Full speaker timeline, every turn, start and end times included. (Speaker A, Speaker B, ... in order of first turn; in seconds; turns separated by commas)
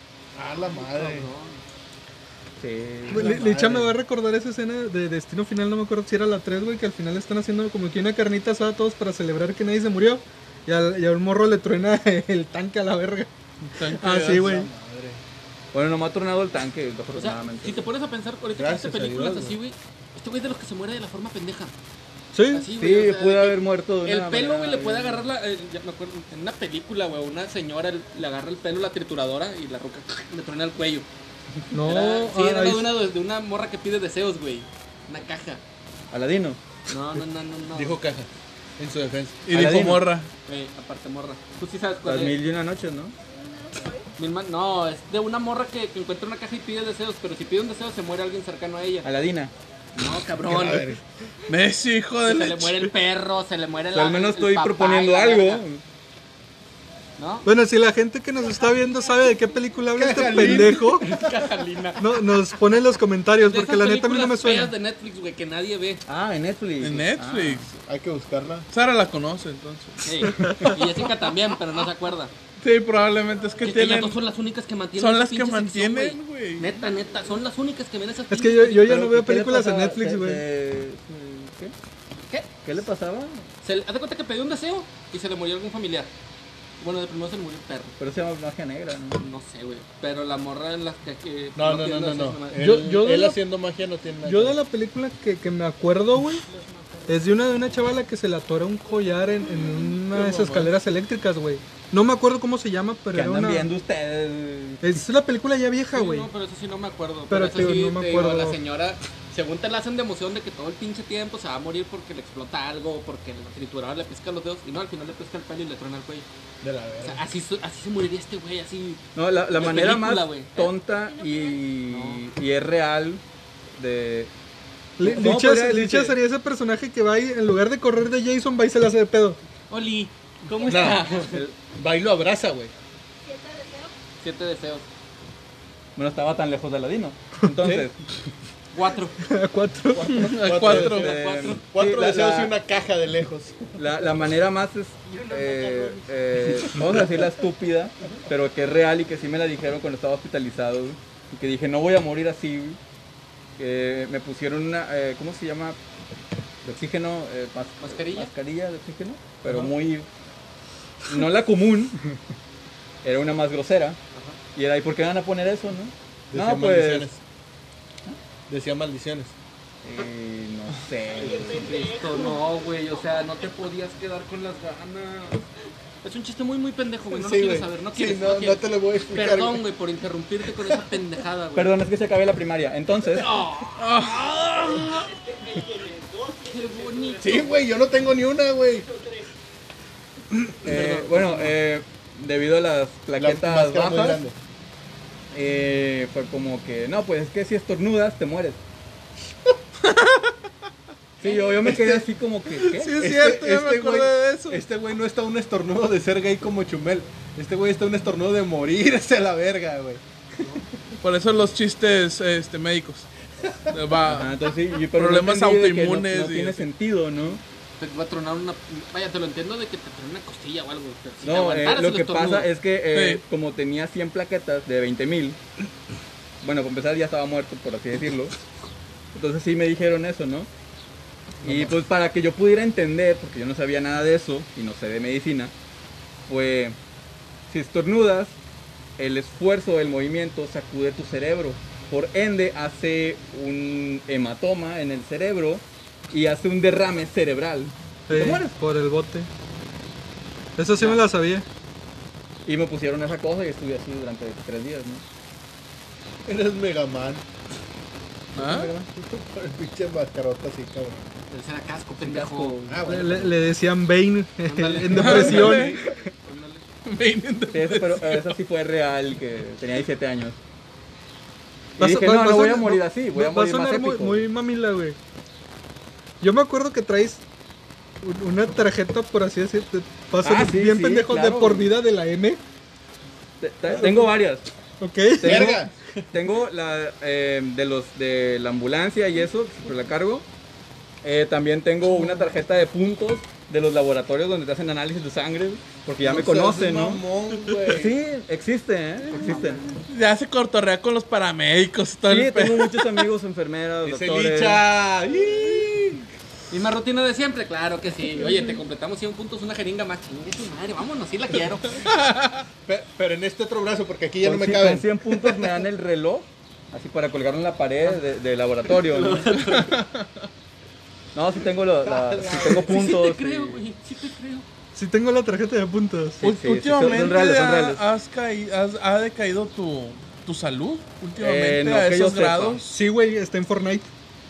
Speaker A: 0.3-1.3, Speaker B: 0.6-1.6, Speaker C: 2.6-3.6, Speaker A: 3.1-3.9, Speaker D: 3.1-14.7, Speaker E: 13.8-14.4, Speaker A: 14.2-15.2, Speaker C: 15.7-17.9, Speaker B: 17.1-21.7, Speaker A: 18.5-19.6, Speaker D: 22.3-22.6, Speaker B: 22.5-31.1, Speaker C: 22.7-25.3, Speaker D: 31.7-33.0, Speaker B: 31.7-35.6, Speaker C: 36.1-36.6, Speaker B: 36.9-38.0, Speaker A: 37.7-39.4, Speaker E: 39.5-40.3, Speaker C: 39.5-40.1, Speaker B: 40.5-42.3, Speaker C: 42.0-43.1, Speaker B: 44.2-49.1, Speaker C: 49.0-49.5, Speaker B: 49.9-50.9, Speaker A: 50.4-51.0, Speaker E: 51.5-52.9, Speaker B: 52.2-55.6, Speaker C: 53.9-55.8, Speaker B: 57.2-57.5, Speaker D: 57.4-61.0, Speaker A: 60.0-61.6, Speaker B: 60.4-62.2, Speaker D: 62.0-64.7, Speaker B: 63.4-66.0, Speaker C: 66.1-67.7, Speaker E: 66.8-67.7, Speaker A: 67.8-68.7, Speaker E: 68.7-70.6, Speaker B: 70.0-72.3, Speaker D: 70.2-70.8, Speaker E: 72.6-74.2, Speaker B: 73.6-79.0, Speaker E: 75.0-76.8, Speaker D: 78.3-80.4, Speaker C: 78.8-81.7, Speaker C: 82.6-83.5, Speaker B: 83.6-86.1, Speaker B: 86.8-88.0, Speaker C: 88.0-89.2, Speaker B: 89.2-92.7, Speaker A: 91.5-94.6, Speaker D: 92.6-93.4, Speaker D: 94.2-96.4, Speaker D: 97.1-103.7, Speaker E: 100.0-100.7, Speaker C: 103.1-104.8, Speaker D: 104.8-106.3, Speaker B: 105.9-116.3, Speaker D: 107.3-108.6, Speaker A: 116.6-117.2, Speaker B: 117.0-120.7, Speaker C: 119.2-123.2, Speaker F: 121.2-121.5, Speaker B: 121.9-122.2, Speaker C: 123.7-124.3, Speaker D: 125.0-129.4, Speaker C: 125.0-126.2, Speaker B: 129.7-131.5, Speaker A: 130.6-132.7, Speaker F: 133.3-133.9, Speaker B: 134.2-134.8, Speaker C: 135.9-137.9, Speaker B: 138.7-139.2, Speaker D: 139.2-140.3, Speaker E: 140.1-141.1, Speaker A: 140.2-143.9, Speaker C: 140.5-142.5, Speaker B: 140.8-141.6, Speaker C: 143.7-152.8, Speaker F: 145.2-145.9, Speaker C: 153.6-155.8, Speaker C: 156.6-160.1, Speaker B: 157.8-158.3, Speaker C: 161.1-162.2, Speaker C: 163.0-164.0, Speaker C: 164.5-167.1, Speaker A: 166.3-167.2, Speaker A: 168.5-169.3, Speaker C: 169.8-171.9, Speaker B: 171.2-175.4, Speaker F: 171.4-172.2, Speaker B: 176.0-181.7, Speaker A: 177.1-179.6, Speaker A: 180.6-180.8, Speaker C: 181.6-183.3, Speaker B: 183.1-184.1, Speaker E: 183.8-185.1, Speaker F: 184.8-187.5, Speaker B: 186.4-187.5, Speaker A: 187.2-188.9, Speaker F: 188.9-189.2, Speaker B: 190.6-191.5, Speaker C: 190.6-194.2, Speaker A: 193.2-194.3, Speaker C: 195.3-198.6, Speaker C: 201.2-202.9, Speaker B: 201.2-201.6, Speaker A: 201.6-202.0, Speaker D: 202.8-204.6, Speaker A: 203.0-210.0, Speaker E: 211.0-213.1, Speaker E: 213.7-214.3, Speaker C: 214.0-217.4, Speaker E: 214.9-216.6, Speaker B: 217.8-222.5, Speaker C: 221.2-225.4, Speaker E: 222.9-223.2, Speaker C: 226.4-228.3, Speaker C: 229.1-230.5, Speaker A: 231.4-231.7, Speaker C: 231.4-235.5, Speaker C: 236.3-236.8, Speaker C: 237.5-238.3, Speaker C: 239.0-248.5, Speaker D: 248.1-249.3, Speaker D: 250.6-251.4, Speaker C: 252.4-255.0, Speaker A: 256.2-257.2, Speaker E: 258.3-258.7, Speaker A: 258.3-261.0, Speaker B: 261.3-262.8, Speaker C: 262.0-262.8, Speaker A: 262.6-263.4, Speaker D: 262.8-265.7, Speaker B: 264.4-266.6, Speaker E: 264.9-265.9, Speaker A: 265.1-265.6, Speaker E: 266.9-268.3, Speaker C: 267.5-270.4, Speaker C: 271.8-274.2, Speaker D: 271.8-275.0, Speaker D: 276.2-277.2, Speaker D: 278.0-282.4, Speaker C: 280.2-281.7, Speaker C: 283.4-284.5, Speaker D: 283.8-284.1, Speaker D: 284.8-285.6, Speaker C: 285.2-285.6, Speaker A: 285.2-286.0, Speaker C: 286.1-290.2, Speaker C: 291.0-297.0, Speaker A: 296.0-297.9, Speaker C: 297.6-299.6, Speaker E: 299.9-302.9, Speaker C: 302.1-304.6, Speaker A: 303.8-306.1, Speaker B: 306.5-311.8, Speaker E: 311.8-312.4, Speaker A: 312.6-315.5, Speaker C: 314.2-319.5, Speaker B: 318.7-319.8, Speaker E: 319.4-320.2, Speaker C: 321.1-323.6, Speaker A: 321.8-322.8, Speaker B: 322.3-324.4, Speaker D: 324.7-326.2, Speaker C: 326.2-327.8, Speaker E: 326.2-332.7, Speaker C: 331.2-332.6, Speaker D: 332.7-333.9